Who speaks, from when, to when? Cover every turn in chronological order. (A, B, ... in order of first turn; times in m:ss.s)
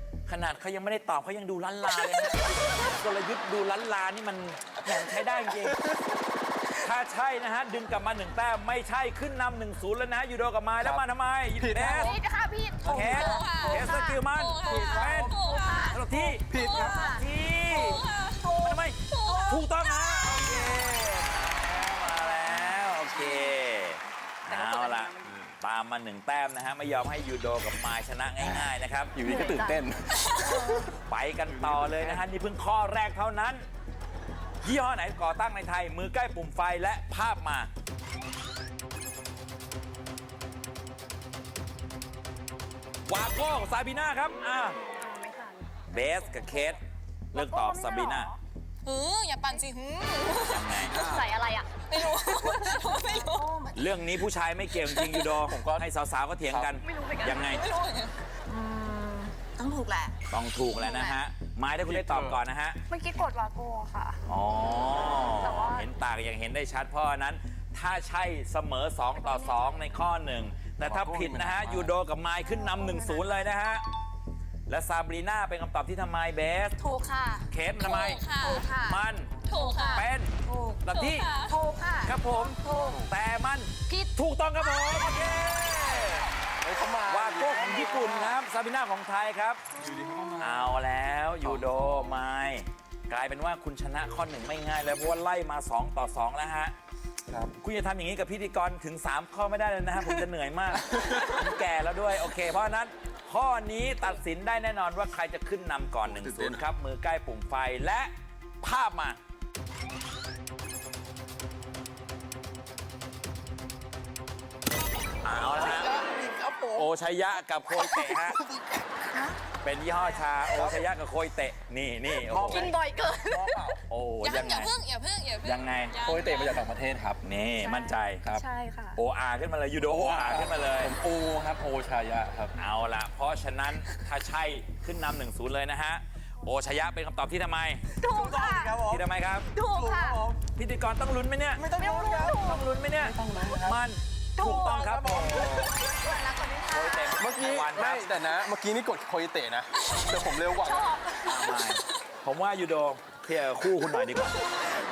0:00.3-0:05.9 A
0:06.8-0:12.2 A
0:11.6-0:12.1 B
0:12.0-0:14.2 C
0:12.8-0:14.0 D
0:12.8-0:15.4 A
0:12.9-0:20.4 E
0:14.7-0:15.3 D
0:15.2-0:16.0 C
0:15.9-0:16.4 D
0:15.9-0:18.0 A
0:16.4-0:17.1 B
0:16.6-0:16.9 C
0:16.9-0:17.2 D
0:18.4-0:18.8 D
0:18.6-0:29.2 A
0:19.3-0:19.6 D
0:24.5-0:25.0 D
0:28.4-0:30.9 B
0:29.3-0:29.7 C
0:30.4-0:30.9 C
0:31.1-0:33.7 A
0:31.4-0:32.3 B
0:34.6-0:37.7 A
0:43.1-0:44.8 A
0:44.9-0:45.6 C
0:45.9-0:46.8 A
0:47.3-0:48.3 A
0:47.3-0:48.4 C
0:48.8-0:50.9 E
0:50.5-0:51.0 A
0:50.8-0:51.4 B
0:51.1-0:51.7 C
0:51.8-0:53.5 E
0:52.5-0:54.0 D
0:53.7-0:57.6 A
0:54.8-0:55.3 E
0:55.4-0:55.9 B
0:56.5-0:56.8 B
0:56.8-0:57.7 C
0:57.3-0:58.1 E
0:58.5-1:00.2 D
1:00.3-1:02.8 A
1:00.8-1:01.2 D
1:01.8-1:02.4 B
1:02.9-1:04.2 C
1:04.3-1:13.8 A
1:05.2-1:05.9 C
1:09.2-1:09.7 C
1:10.8-1:11.9 B
1:12.5-1:13.2 D
1:14.7-1:16.8 A
1:16.8-1:17.5 D
1:17.5-1:19.3 A
1:17.8-1:18.7 E
1:18.4-1:19.0 D
1:19.4-1:20.0 E
1:19.5-1:20.8 D
1:19.9-1:20.3 A
1:20.8-1:21.3 A
1:20.9-1:21.6 E
1:21.5-1:23.1 D
1:22.0-1:26.3 A
1:26.6-1:28.4 B
1:27.1-1:29.7 A
1:29.8-1:30.8 B
1:30.4-1:36.7 A
1:31.4-1:32.1 B
1:37.6-1:49.2 A
1:40.9-1:41.3 B
1:46.0-1:46.6 B
1:55.2-1:56.0 A
1:55.6-1:56.9 B
1:56.7-1:58.4 A
1:57.9-1:58.8 B
1:59.6-2:02.7 A
2:00.5-2:00.8 B
2:02.2-2:03.8 B
2:02.5-2:03.7 C
2:03.9-2:04.7 A
2:04.2-2:06.6 E
2:05.4-2:06.0 A
2:06.0-2:07.2 B
2:07.2-2:08.3 A
2:07.6-2:09.0 C
2:09.0-2:10.9 A
2:09.8-2:12.6 B
2:12.6-2:17.8 A
2:18.0-2:18.8 C
2:18.0-2:19.0 B
2:18.9-2:19.5 A
2:19.5-2:20.3 C
2:19.6-2:20.4 B
2:20.5-2:21.6 A
2:21.6-2:23.8 B
2:21.7-2:22.7 C
2:22.4-2:25.9 A
2:24.4-2:24.7 C
2:24.4-2:25.7 B
2:25.9-2:27.1 C
2:26.1-2:26.8 D
2:26.7-2:28.1 A
2:27.2-2:31.1 B
2:30.6-2:31.5 C
2:31.2-2:34.5 A